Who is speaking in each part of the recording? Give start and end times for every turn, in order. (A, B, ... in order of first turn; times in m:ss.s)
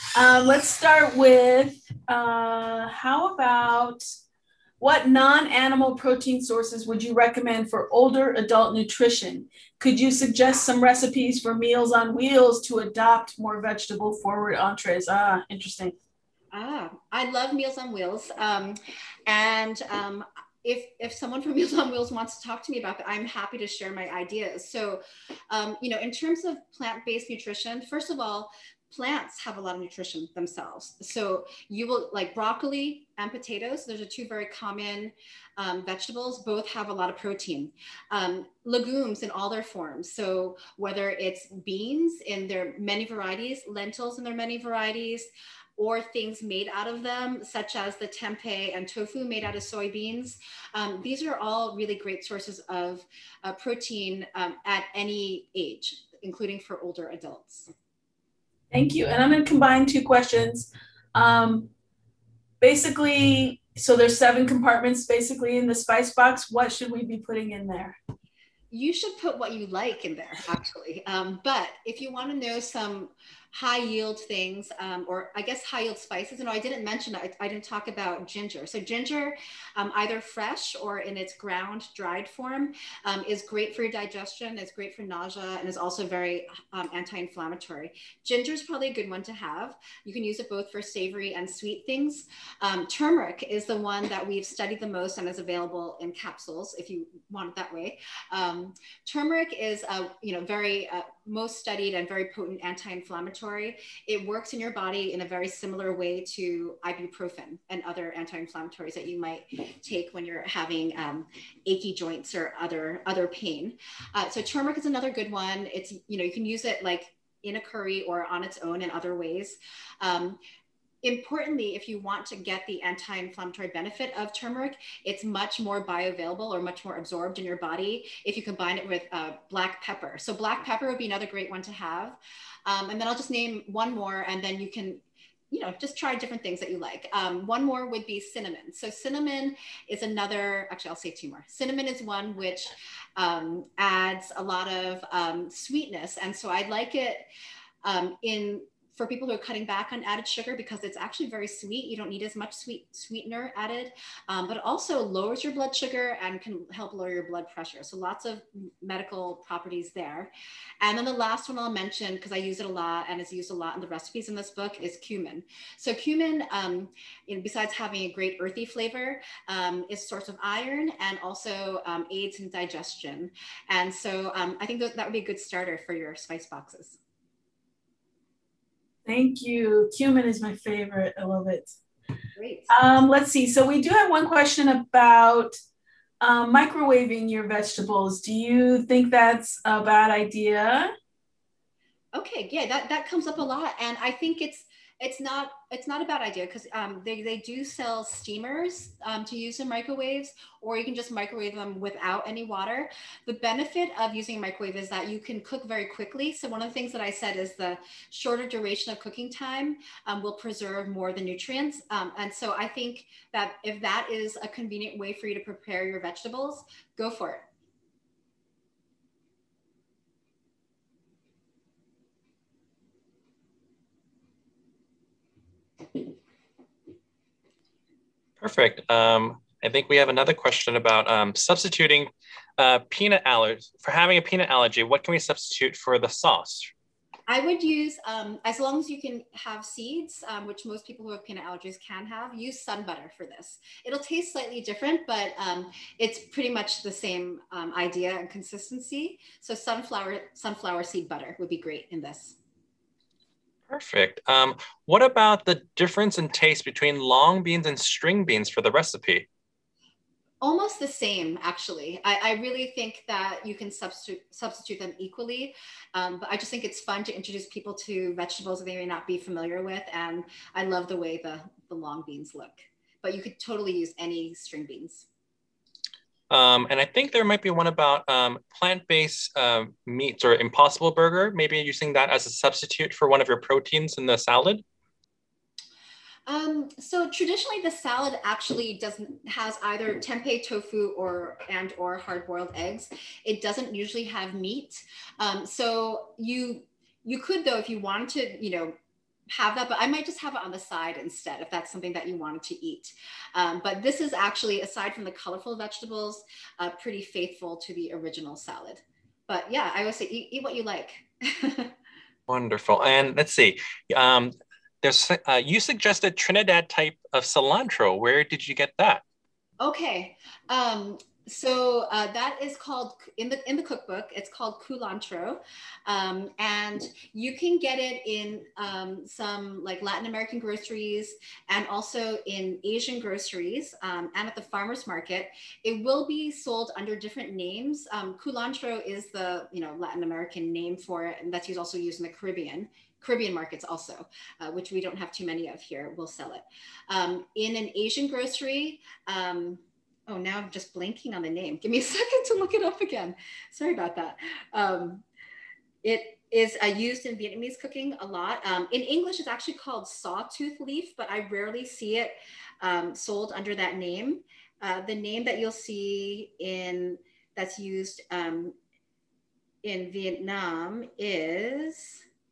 0:00.1-0:04.0 A
0:04.8-0:16.0 A
0:16.5-0:57.7 B
0:58.7-1:01.7 A
1:02.6-1:08.0 A
1:08.7-2:00.4 B
2:01.0-2:27.3 B
2:27.8-2:57.0 B
2:59.0-3:01.8 A
3:02.4-3:02.7 B
3:02.7-3:05.6 A
3:06.2-3:10.9 A
3:12.1-3:37.5 B
3:48.4-3:56.7 C
3:57.3-4:12.4 B
4:13.7-4:19.3 C
4:20.4-4:35.1 B
4:36.3-4:44.6 C
4:46.3-4:58.7 B
4:59.3-5:11.7 B
5:12.3-5:19.0 C
5:19.6-5:55.0 B
5:55.8-6:08.6 B
6:09.6-6:12.0 B